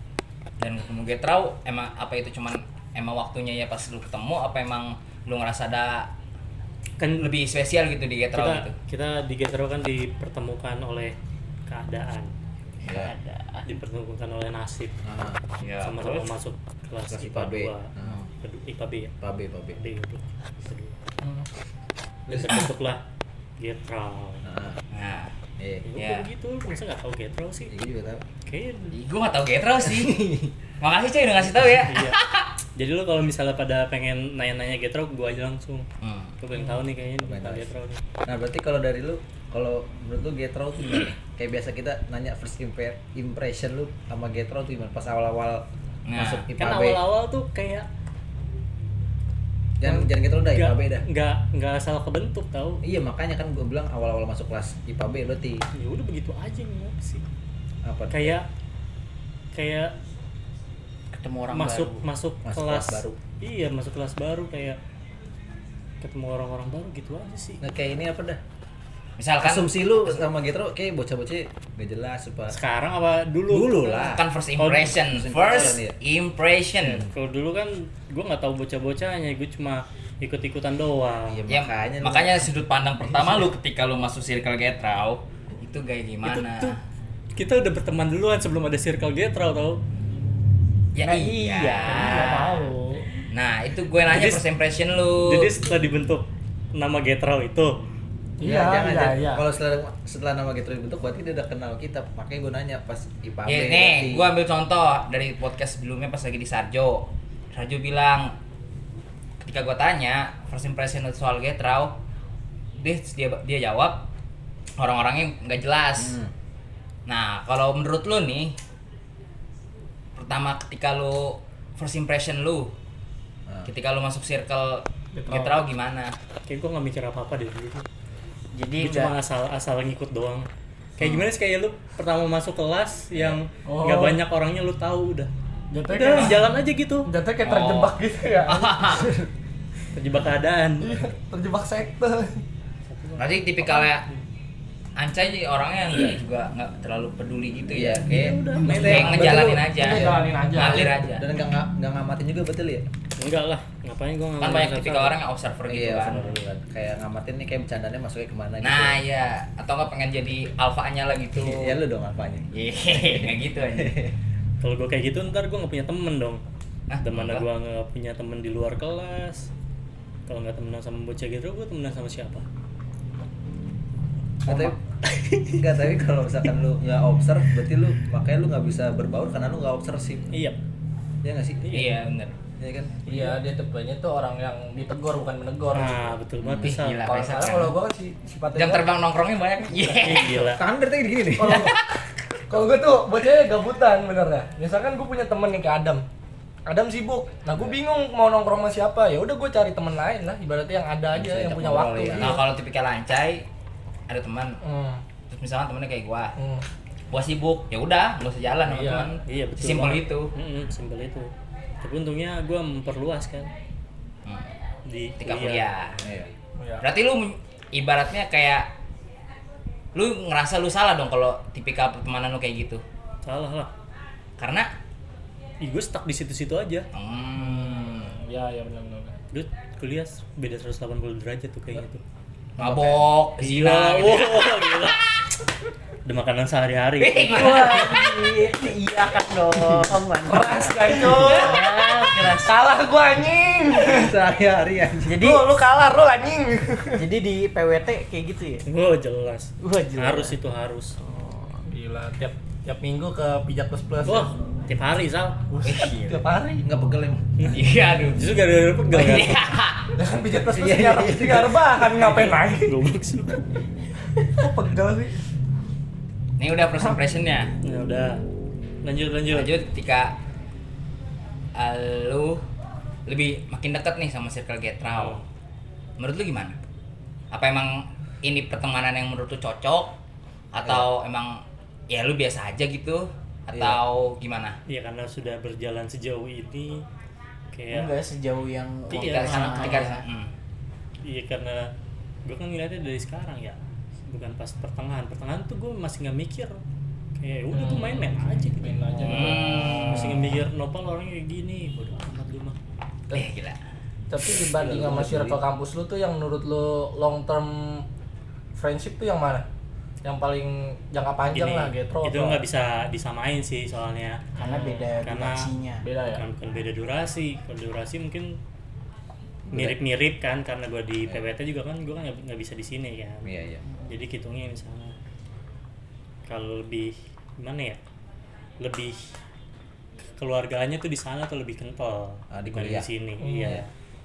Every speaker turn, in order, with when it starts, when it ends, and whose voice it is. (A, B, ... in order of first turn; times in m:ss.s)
0:00.6-0:06.1 A
0:07.0-0:07.3 B
0:07.2-0:08.8 A
0:08.3-0:11.1 B
0:11.7-0:12.3 B
0:12.8-0:13.1 C
0:12.9-0:13.7 D
0:13.6-0:15.0 B
0:15.0-0:15.4 C
0:15.6-0:16.3 A
0:15.8-0:19.1 B
0:17.1-0:18.2 C
0:19.2-0:19.8 C
0:19.8-0:20.9 B
0:22.3-0:22.6 C
0:22.3-0:23.0 B
0:23.6-0:24.4 B
0:24.4-0:24.8 C
0:24.9-0:25.3 A
0:25.6-0:25.9 C
0:25.9-0:27.7 B
0:25.9-0:26.3 A
0:27.7-0:28.2 C
0:28.4-0:28.9 B
0:28.9-0:30.2 A
0:29.8-0:30.5 C
0:30.8-0:32.5 A
0:31.8-0:32.2 B
0:32.8-0:35.9 B
0:36.0-0:36.4 A
0:36.4-0:38.0 B
0:37.2-0:37.7 C
0:38.2-0:47.0 C
0:46.0-0:46.5 A
0:46.6-0:47.9 B
0:49.8-0:51.0 C
0:49.8-0:52.8 B
0:52.8-0:55.6 C
0:55.7-0:57.3 B
0:57.8-0:58.4 C
0:58.1-0:58.5 B
0:59.5-0:59.9 B
1:01.1-1:02.0 D
1:01.5-1:04.8 B
1:02.4-1:03.2 C
1:06.0-1:07.6 B
1:07.6-1:08.4 C
1:09.2-1:10.2 A
1:09.4-1:12.5 C
1:12.5-1:15.8 B
1:13.5-1:14.2 C
1:14.0-1:17.0 A
1:15.1-1:16.0 C
1:16.8-1:17.1 C
1:16.8-1:21.4 B
1:21.2-1:23.5 C
1:21.5-1:26.8 A
1:26.2-1:26.8 B
1:27.4-1:29.8 B
1:30.9-1:32.5 A
1:31.0-1:32.7 D
1:31.9-1:32.7 B
1:32.1-1:32.7 E
1:33.3-1:35.5 A
1:34.1-1:34.4 B
1:35.2-1:37.8 B
1:38.4-1:39.4 E
1:38.4-1:44.3 C
1:43.4-1:48.3 A
1:49.4-1:52.0 A
1:52.7-1:54.1 A
1:54.8-1:56.2 A
1:56.0-1:56.3 C
1:57.1-1:58.6 A
2:00.2-2:02.7 A
2:03.6-2:06.1 A
2:05.1-2:05.6 E
2:06.5-2:07.8 B
2:08.5-2:09.2 D
2:08.8-2:10.5 B
2:11.0-2:11.3 C
2:11.0-2:15.3 B
2:13.1-2:13.4 C
2:13.6-2:14.2 E
2:15.7-2:16.4 E
2:15.8-2:17.1 B
2:17.0-2:18.8 E
2:17.4-2:19.1 A
2:18.9-2:19.3 C
2:19.9-2:21.0 B
2:20.8-2:22.4 E
2:22.9-2:24.2 B
2:23.2-2:24.1 A
2:25.0-2:28.0 A
2:27.7-2:32.8 C
2:28.0-2:29.5 B
2:28.6-2:31.0 E
2:28.8-2:31.2 A
2:33.2-2:35.1 B
2:34.4-2:36.2 A
2:35.7-2:39.0 C
2:36.1-2:36.4 B
2:38.6-2:41.8 A
2:41.3-2:44.2 C
2:42.5-2:44.0 A
2:44.6-2:46.4 B
2:46.9-2:47.4 A
2:47.0-2:49.5 B
2:50.3-2:52.4 B
2:54.4-2:54.8 C
2:54.5-2:55.6 B
2:55.5-3:00.3 C
3:00.3-3:00.6 B
3:01.2-3:01.7 C
3:01.6-3:02.0 B
3:01.7-3:02.3 A
3:02.6-3:03.0 C
3:03.1-3:06.1 E
3:05.7-3:07.1 B
3:06.4-3:06.8 C
3:06.6-3:07.7 A
3:07.1-3:08.9 E
3:08.5-3:10.5 A
3:09.9-3:10.6 B
3:10.5-3:11.7 C
3:11.4-3:11.8 E
3:11.5-3:11.9 A
3:12.5-3:16.0 E
3:16.7-3:22.4 E
3:21.1-3:22.4 C
3:22.1-3:23.4 A
3:24.1-3:24.6 A
3:24.6-3:25.0 E
3:25.3-3:26.3 A
3:26.4-3:26.6 E
3:27.1-3:30.3 A
3:28.7-3:29.1 E
3:29.2-3:31.3 B
3:31.8-3:33.5 B
3:34.2-3:34.5 A
3:34.9-3:35.7 B
3:35.2-3:36.0 A
3:36.0-3:36.3 C
3:36.6-3:36.8 E
3:36.8-3:38.7 A
3:39.9-3:42.8 A
3:43.2-3:43.7 B
3:44.4-3:44.7 A
3:45.6-3:46.9 B
3:46.9-3:48.2 A
3:47.4-3:49.1 E
3:49.3-3:52.0 B
3:52.6-3:55.0 A
3:52.6-3:53.0 C
3:53.4-3:55.0 B
3:56.0-3:57.8 B
3:57.0-3:58.4 A
3:57.2-4:02.6 D
3:59.5-4:00.0 C
4:00.2-4:04.1 E
4:03.7-4:05.2 C
4:05.1-4:05.4 D
4:05.2-4:07.1 E
4:07.0-4:08.7 D
4:08.6-4:10.9 B
4:09.6-4:10.4 D
4:11.0-4:11.6 D
4:11.7-4:14.3 E
4:14.0-4:15.4 B
4:15.5-4:16.6 E
4:15.6-4:16.2 A
4:16.6-4:17.5 C
4:17.5-4:18.3 A
4:18.1-4:19.4 B
4:18.9-4:19.9 A
4:19.9-4:22.7 E
4:20.4-4:21.7 C
4:22.0-4:23.5 B
4:24.4-4:25.2 E
4:26.4-4:27.5 A
4:27.6-4:28.2 B
4:28.8-4:29.5 B
4:29.3-4:30.2 A
4:31.6-4:32.4 A
4:33.1-4:35.2 A
4:34.9-4:35.2 B
4:36.0-4:36.6 A
4:37.3-4:39.9 A
4:40.5-4:44.6 A
4:43.5-4:43.8 C
4:44.7-4:46.8 B
4:47.5-4:48.0 B
4:47.7-4:50.0 D
4:48.9-4:49.9 B
4:48.9-4:50.3 A
4:51.0-4:51.7 B
4:52.2-4:56.6 B
4:57.2-5:02.6 B
4:57.5-4:58.1 E
4:58.6-4:59.8 E
4:59.0-5:00.4 A
5:03.1-5:03.6 A
5:04.1-5:07.8 E
5:04.6-5:05.4 C
5:04.6-5:05.3 B
5:08.6-5:09.4 E
5:10.0-5:12.4 E
5:11.3-5:14.2 B
5:14.4-5:15.9 D
5:15.0-5:15.5 B
5:15.8-5:16.2 E
5:16.1-5:18.4 B
5:19.5-5:19.8 C
5:19.5-5:23.3 B
5:23.2-5:23.6 C
5:23.9-5:24.9 B
5:26.2-5:27.8 B
5:28.6-5:29.1 B
5:30.2-5:33.7 B
5:32.3-5:33.6 C
5:33.2-5:33.6 E